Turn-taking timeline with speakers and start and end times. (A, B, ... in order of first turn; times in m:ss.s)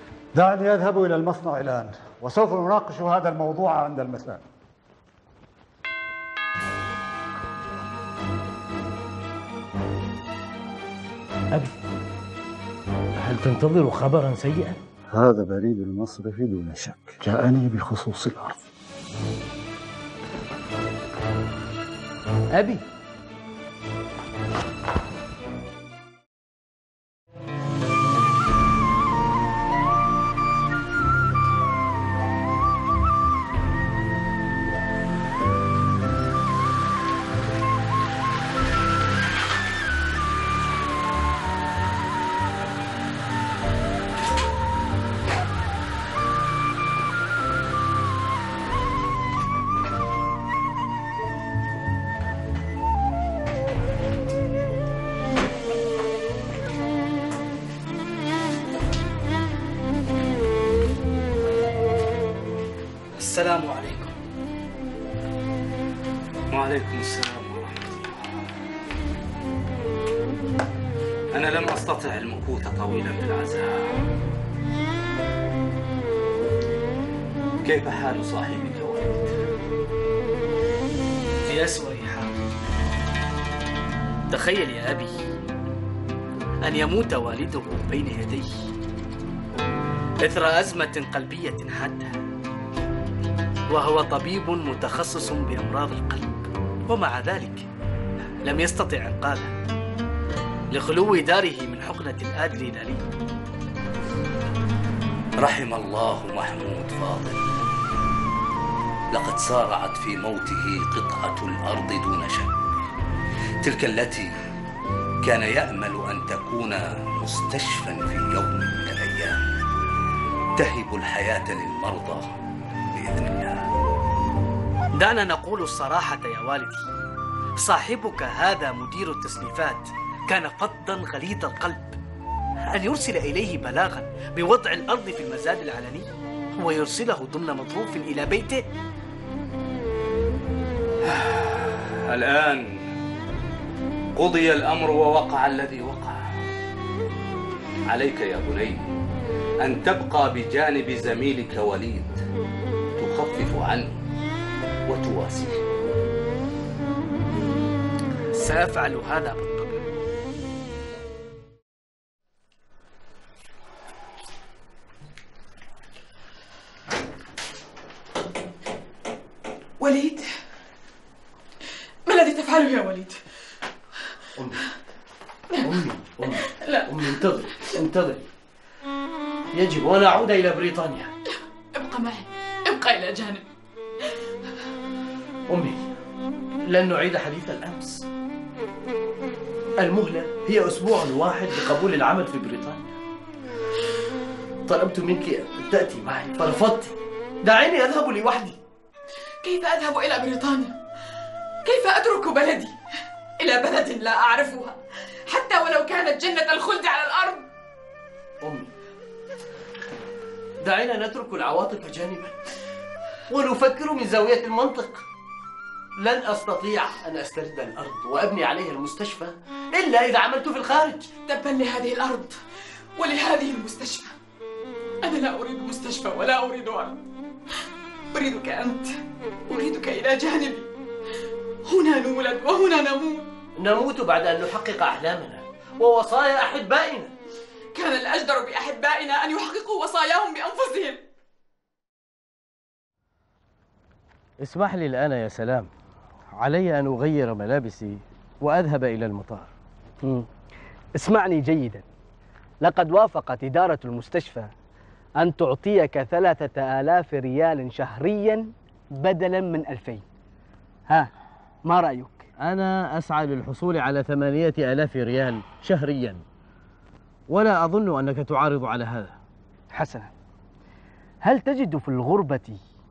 0:00.3-0:04.4 A
0:13.2-0:14.8 B
0:15.1-0:18.6 A
0:22.5-0:22.8 B
1:03.1-1:04.1 C
1:06.5-1:08.4 C
1:11.3-1:14.0 C
1:17.6-1:19.4 C
1:21.4-1:22.4 D
1:24.3-1:25.2 D
1:26.6-1:28.7 D
1:30.2-1:32.2 D
1:33.7-1:37.7 D
1:38.4-1:39.5 D
1:40.7-1:43.1 D
1:45.4-1:47.4 C
1:49.1-1:52.9 C
1:53.6-1:54.4 C
1:55.2-1:59.4 C
2:00.6-2:02.4 C
2:02.9-2:03.7 C
2:04.9-2:06.9 D
2:07.6-2:12.0 D
2:12.6-2:18.7 D
2:21.0-2:22.9 C
2:24.2-2:26.2 C
2:27.9-2:28.9 C
2:29.6-2:32.2 C
2:33.0-2:34.0 C
2:34.9-2:35.6 C
2:38.3-2:39.8 D
2:49.8-2:50.3 E
2:52.0-2:53.2 E
2:54.4-2:54.6 B
2:55.6-2:58.3 B
2:56.3-2:57.3 E
2:59.5-3:01.1 B
3:01.8-3:03.4 E
3:05.5-3:05.9 B
3:06.7-3:08.1 B
3:09.8-3:12.9 B
3:14.7-3:18.6 B
3:19.4-3:20.8 E
3:21.6-3:22.8 E
3:23.4-3:27.5 E
3:28.4-3:28.7 B
3:30.6-3:32.5 B
3:33.3-3:35.0 B
3:36.0-3:41.1 B
3:41.3-3:42.4 E
3:43.0-3:44.2 E
3:45.0-3:47.0 E
3:48.1-3:50.7 E
3:51.6-3:53.3 E
3:53.6-3:57.1 B
3:57.7-4:01.0 E
4:04.4-4:05.7 B
4:06.4-4:09.5 B
4:10.0-4:10.3 F
4:11.0-4:11.8 F
4:12.6-4:14.5 F
4:15.2-4:20.0 F
4:21.6-4:22.3 F
4:22.4-4:26.2 B
4:27.3-4:29.2 B
4:29.7-4:30.1 F
4:31.2-4:32.6 F